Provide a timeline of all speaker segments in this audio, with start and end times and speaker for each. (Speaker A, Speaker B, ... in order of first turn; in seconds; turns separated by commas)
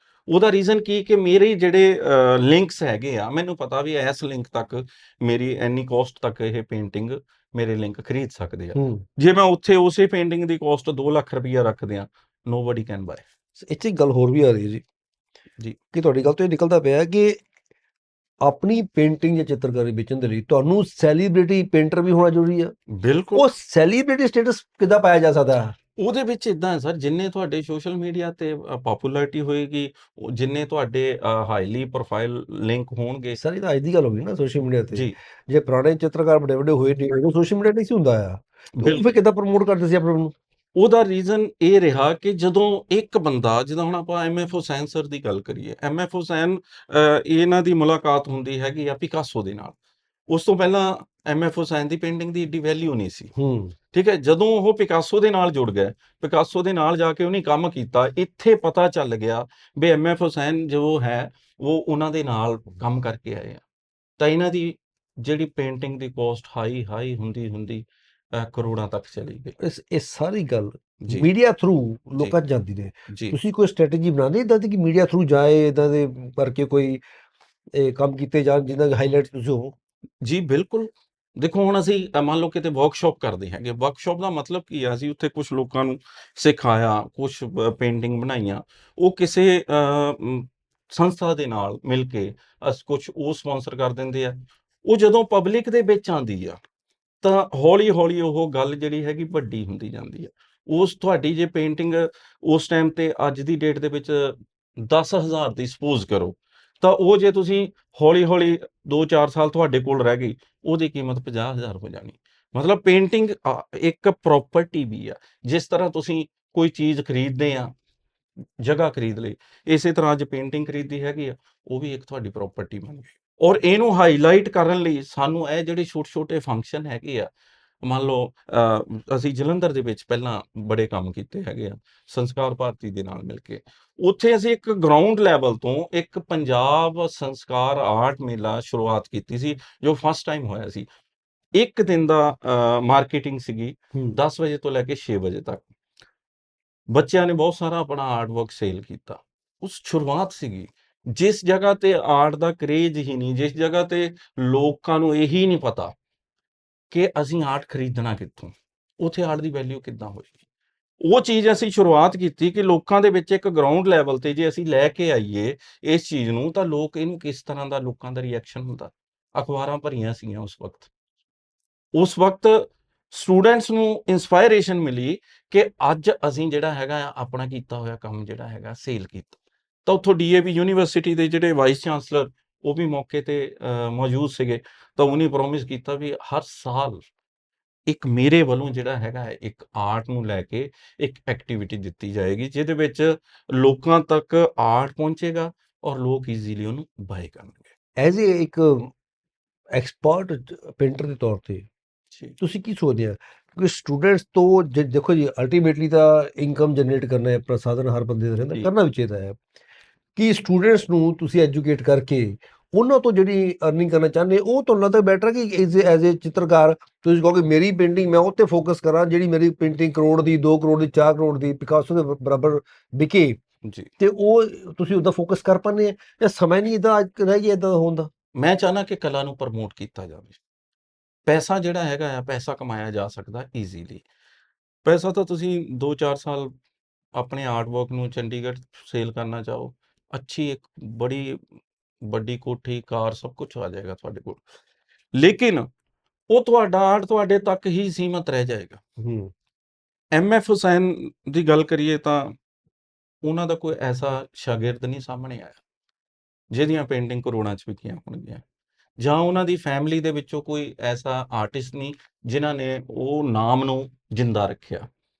Speaker A: 0.3-13.2, Speaker B: 8.7-9.0, Speaker B: 13.6-14.8, Speaker B: 15.9-17.4, Speaker B: 18.4-22.7, Speaker A: 22.9-23.5, Speaker B: 23.3-25.7, Speaker A: 26.0-33.4, Speaker B: 33.4-40.3, Speaker A: 38.8-39.1, Speaker A: 40.8-49.8, Speaker A: 50.3-53.3, Speaker B: 53.4-53.7, Speaker A: 53.9-63.6, Speaker A: 64.2-69.6, Speaker B: 69.6-77.0, Speaker A: 71.0-71.3, Speaker A: 73.1-73.4, Speaker B: 77.7-79.7, Speaker A: 80.2-96.6, Speaker A: 97.2-117.7, Speaker A: 118.6-127.3, Speaker A: 127.8-140.8, Speaker A: 141.6-145.7, Speaker A: 146.9-155.9, Speaker A: 156.9-160.3, Speaker A: 161.0-170.9, Speaker A: 171.9-187.0, Speaker A: 187.9-197.7, Speaker B: 198.0-198.9, Speaker B: 199.7-201.7, Speaker B: 202.4-209.4, Speaker B: 210.2-223.4, Speaker A: 223.6-223.9, Speaker B: 224.0-228.1, Speaker A: 228.3-230.4, Speaker A: 231.3-234.0, Speaker A: 234.8-236.5, Speaker A: 237.1-241.4, Speaker A: 242.0-244.4, Speaker A: 245.1-245.7, Speaker A: 246.3-248.8, Speaker B: 249.0-249.3, Speaker A: 250.1-252.3, Speaker A: 253.2-255.6, Speaker A: 256.5-258.4, Speaker A: 259.0-264.9